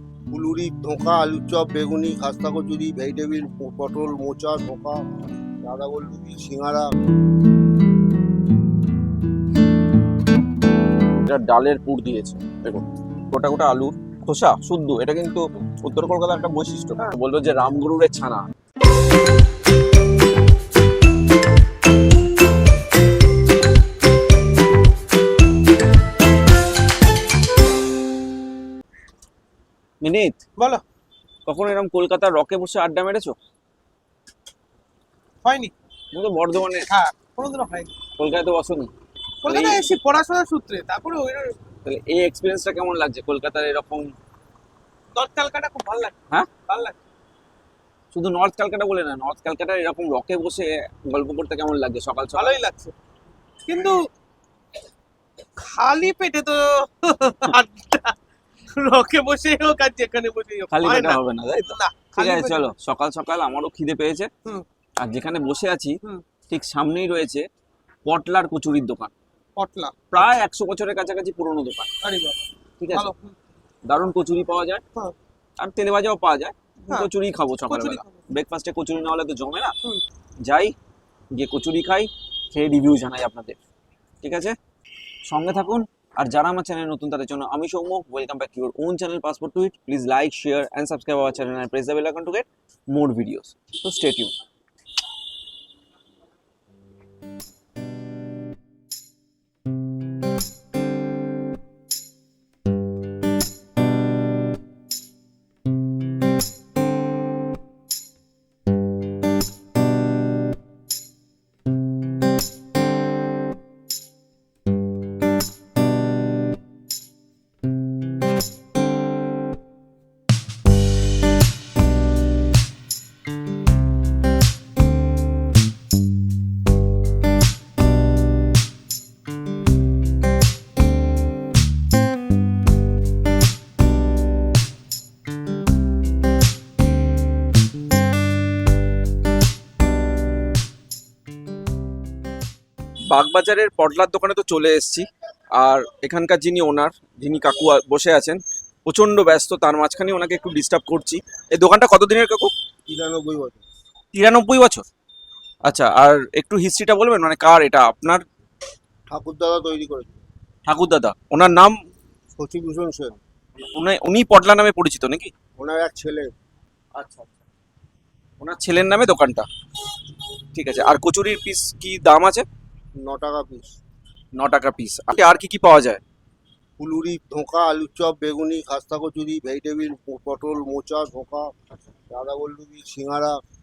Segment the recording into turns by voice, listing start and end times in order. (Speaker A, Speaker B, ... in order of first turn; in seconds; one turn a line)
Speaker A: 0.3-5.0
Speaker A: 5.6-6.9
Speaker B: 11.2-18.4
Speaker B: 30.0-30.4
Speaker C: 30.6-30.8
Speaker B: 31.4-33.4
Speaker C: 35.4-35.7
Speaker B: 36.1-36.9
Speaker C: 36.9-37.9
Speaker B: 38.2-38.9
Speaker C: 39.4-41.5
Speaker B: 39.4-39.8
Speaker B: 41.8-44.1
Speaker C: 45.1-46.9
Speaker B: 48.1-52.6
Speaker C: 52.3-52.9
Speaker C: 53.7-54.0
Speaker C: 55.6-58.1
Speaker C: 58.7-62.7
Speaker B: 60.7-64.3
Speaker B: 65.0-66.0
Speaker B: 66.5-67.4
Speaker B: 68.0-69.1
Speaker C: 69.6-70.2
Speaker B: 70.1-71.9
Speaker C: 72.0-72.4
Speaker B: 72.8-73.1
Speaker C: 72.9-73.3
Speaker B: 73.8-74.8
Speaker B: 75.6-79.7
Speaker C: 77.7-78.2
Speaker B: 80.4-80.7
Speaker B: 81.3-83.6
Speaker B: 84.2-84.5
Speaker B: 85.3-94.3
Speaker B: 143.1-145.1
Speaker B: 145.6-152.5
Speaker A: 152.9-153.6
Speaker B: 154.1-154.8
Speaker B: 155.6-158.2
Speaker A: 159.1-160.2
Speaker B: 160.7-161.8
Speaker A: 162.4-163.2
Speaker B: 163.7-165.3
Speaker A: 165.6-166.3
Speaker B: 166.9-167.3
Speaker B: 168.4-169.5
Speaker B: 170.5-172.4
Speaker A: 173.0-173.7
Speaker B: 174.3-176.0
Speaker A: 176.8-181.5
Speaker A: 182.1-183.4